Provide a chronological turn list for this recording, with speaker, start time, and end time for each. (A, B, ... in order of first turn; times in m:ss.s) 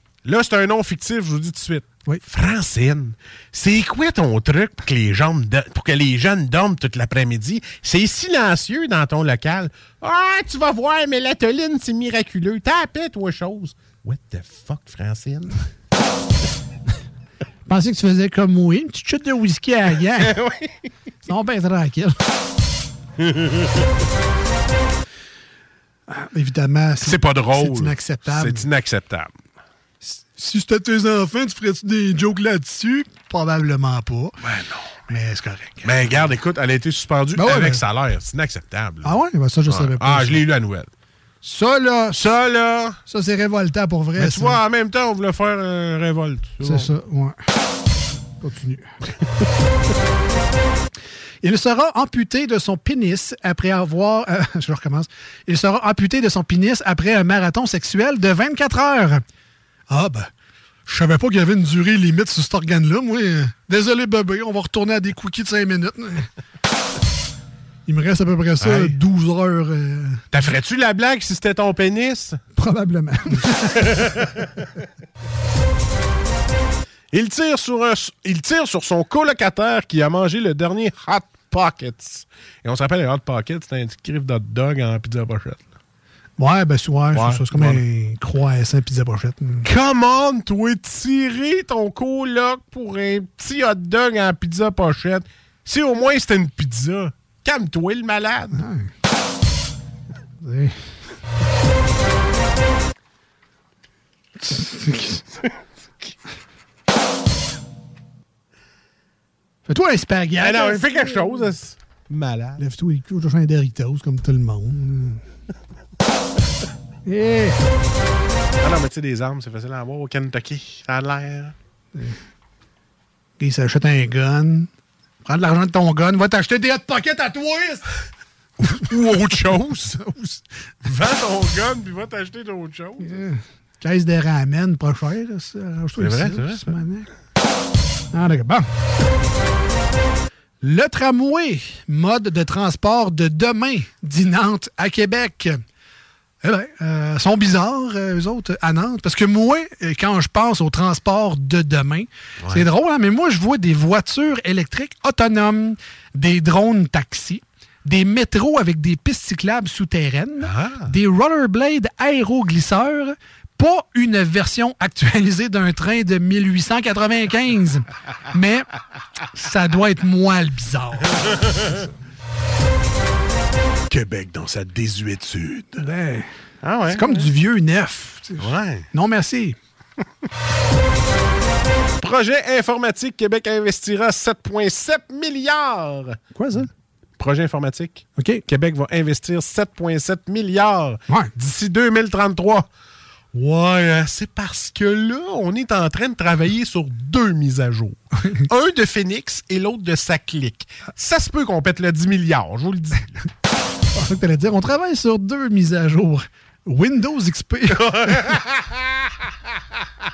0:00.2-0:15.6 A
0:17.6-0:20.4 B
0:20.2-0:20.7 A
0:21.2-0:22.2 B
0:23.2-0:23.8 A
0:26.1-0:28.7 B
0:27.0-0:29.3 A
0:30.0-0:34.4 B
0:34.4-0:34.9 A
0:35.1-0:36.3 B
0:35.8-0:40.9 A
0:37.3-0:37.8 B
0:39.0-0:40.4 B
0:41.4-0:42.3 B
0:42.1-0:43.0 A
0:43.1-0:44.6 B
0:44.2-0:46.9 A
0:46.6-0:47.4 B
0:48.4-0:48.9 B
0:51.4-0:59.2 B
0:59.9-1:00.3 B
1:00.8-1:06.3 B
1:07.8-1:10.2 B
1:08.6-1:09.0 A
1:10.3-1:12.4 A
1:12.6-1:14.4 B
1:13.8-1:14.4 A
1:17.1-1:25.6 A
1:26.4-1:29.7 B
1:27.1-1:27.8 A
1:29.6-1:38.6 A
1:38.5-1:38.9 B
1:40.4-1:40.8 B
1:44.4-1:45.2 B
1:49.6-1:51.5 B
1:50.4-1:52.6 A
1:52.6-1:55.2 B
1:57.0-1:57.6 B
1:58.6-2:01.5 A
2:03.4-2:04.7 B
2:05.2-2:07.9 B
2:08.6-2:10.0 A
2:09.9-2:10.4 B
2:10.8-2:13.2 A
2:13.0-2:17.1 B
2:16.0-2:16.7 A
2:18.1-2:18.6 B
2:20.6-2:25.6 B
2:26.4-2:48.7 B
2:40.4-2:40.9 A
2:49.3-2:51.8 B
2:53.9-2:55.8 A
2:55.8-2:56.3 B
2:56.6-2:57.3 A
2:56.8-2:59.6 B
2:58.4-2:58.9 A
3:02.0-3:06.2 A
3:06.3-3:06.7 B
3:07.2-3:12.7 A
3:08.2-3:08.4 B
3:13.3-3:23.3 A
3:23.9-3:28.2 B
3:27.7-3:29.1 A